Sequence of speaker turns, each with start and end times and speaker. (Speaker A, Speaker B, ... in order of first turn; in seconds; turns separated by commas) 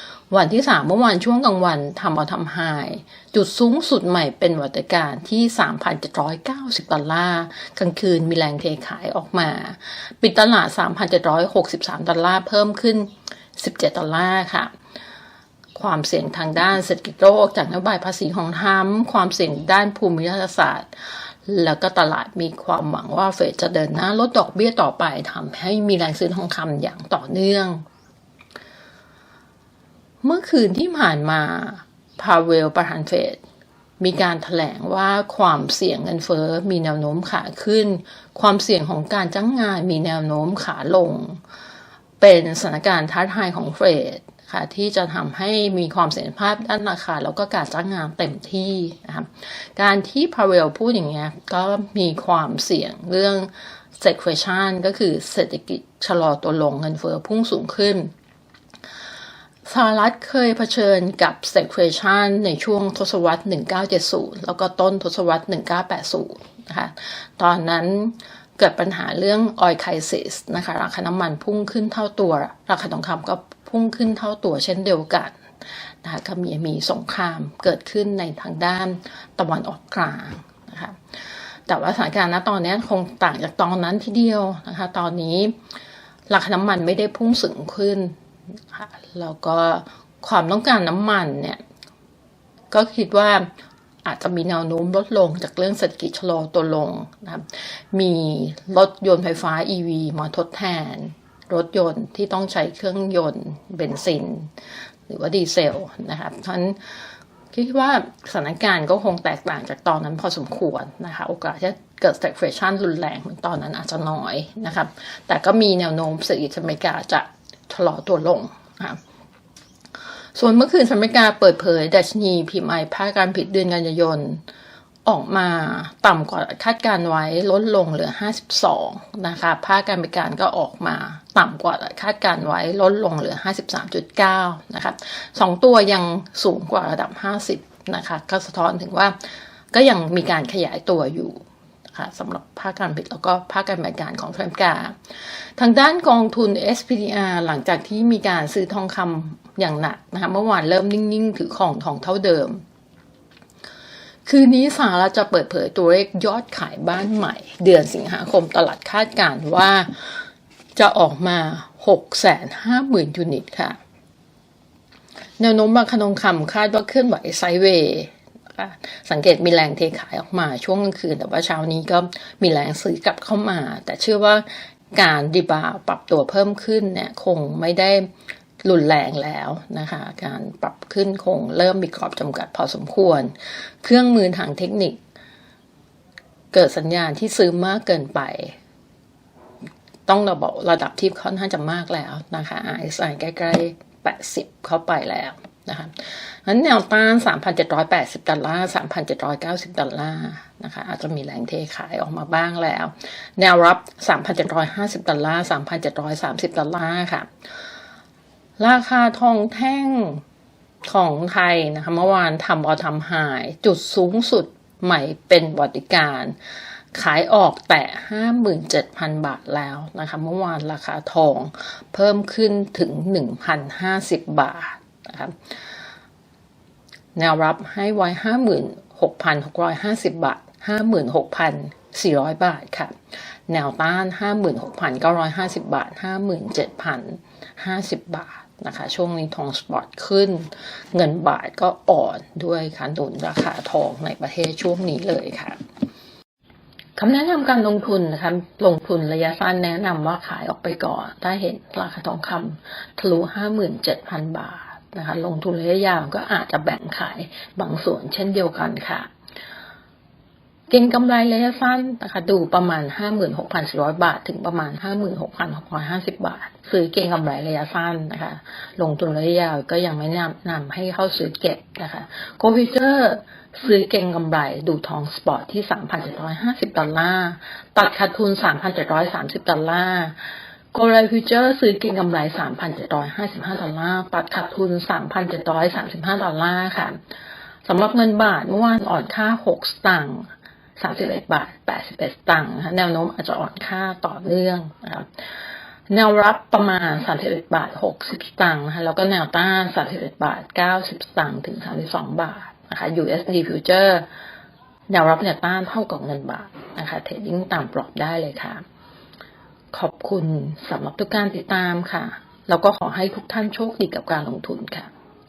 Speaker A: 0.3-14.7, Speaker A: 15.8-27.8, Speaker A: 30.2-33.4, Speaker A: 34.0-41.4, Speaker A: 42.2-58.1, Speaker A: 59.7-75.4, Speaker A: 76.0-81.0, Speaker A: 81.7-85.5, Speaker A: 86.3-88.2, Speaker A: 88.7-91.6, Speaker A: 92.7-93.5, Speaker A: 94.0-104.5, Speaker A: 105.1-106.8, Speaker A: 107.5-119.0, Speaker A: 120.3-124.4, Speaker A: 125.1-139.2, Speaker A: 139.7-141.4, Speaker A: 141.9-144.9, Speaker A: 145.6-152.6, Speaker A: 154.3-160.1, Speaker A: 160.8-163.8, Speaker A: 165.4-178.1, Speaker A: 178.6-185.0, Speaker A: 186.5-188.6, Speaker A: 190.1-207.3, Speaker A: 208.6-210.2, Speaker A: 210.8-216.4, Speaker A: 216.9-225.4, Speaker A: 227.2-232.9, Speaker A: 233.5-245.6, Speaker A: 247.0-259.1, Speaker A: 260.7-280.1, Speaker A: 280.7-287.0, Speaker A: 287.6-295.1, Speaker A: 295.9-304.1, Speaker A: 304.9-308.6, Speaker A: 309.7-314.9